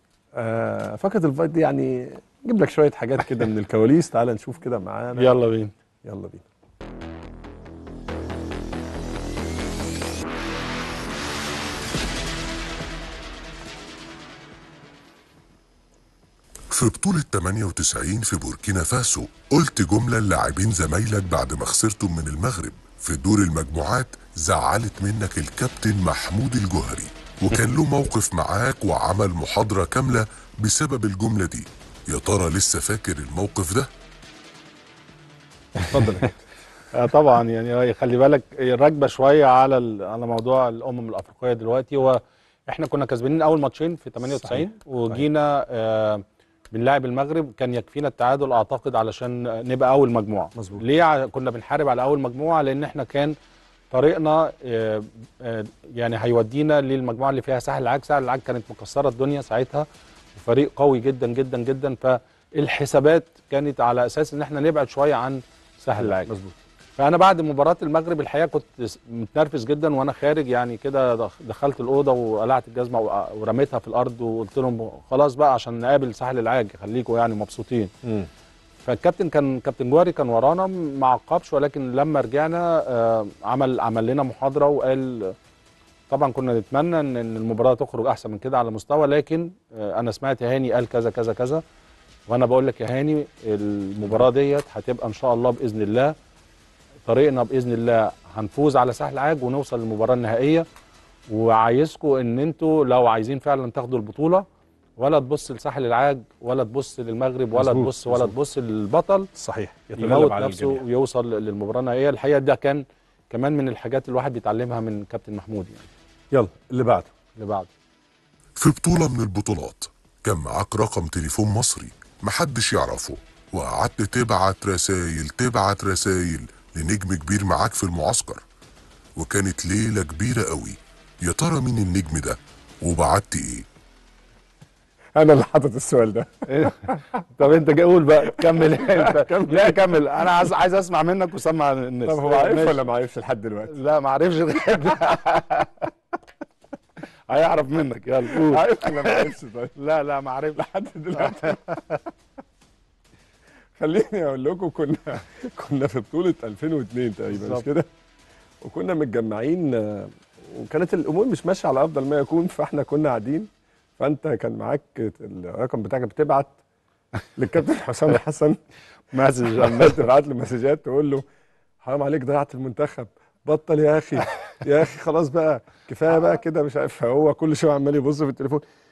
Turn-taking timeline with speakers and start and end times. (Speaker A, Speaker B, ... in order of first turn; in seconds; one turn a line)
Speaker A: 0.3-5.3
Speaker B: 5.2-5.7
Speaker A: 6.0-6.4
Speaker C: 16.7-33.9
Speaker A: 35.8-36.4
Speaker B: 36.9-53.3
Speaker A: 44.2-45.2
Speaker A: 50.5-50.8
Speaker B: 53.9-66.3
Speaker A: 66.0-66.5
Speaker B: 67.0-77.9
Speaker B: 78.8-85.3
Speaker B: 86.1-91.6
Speaker B: 92.3-96.1
Speaker B: 97.0-100.7
Speaker B: 101.3-104.5
Speaker B: 105.0-109.3
Speaker A: 107.5-108.3
Speaker A: 109.4-110.8
Speaker B: 110.0-115.9
Speaker A: 116.3-117.1
Speaker B: 117.3-117.7
Speaker C: 118.6-128.4
Speaker C: 129.2-133.7
Speaker A: 135.1-136.5
Speaker B: 136.5-142.8
Speaker A: 138.6-140.3
Speaker A: 142.1-143.8
Speaker B: 143.7-145.9
Speaker B: 147.3-152.0
Speaker A: 148.3-149.8
Speaker A: 150.6-151.6
Speaker A: 153.8-157.9
Speaker B: 157.3-157.6
Speaker A: 158.6-166.6
Speaker A: 167.3-168.6
Speaker B: 169.1-170.0
Speaker A: 169.3-171.2
Speaker A: 171.8-178.6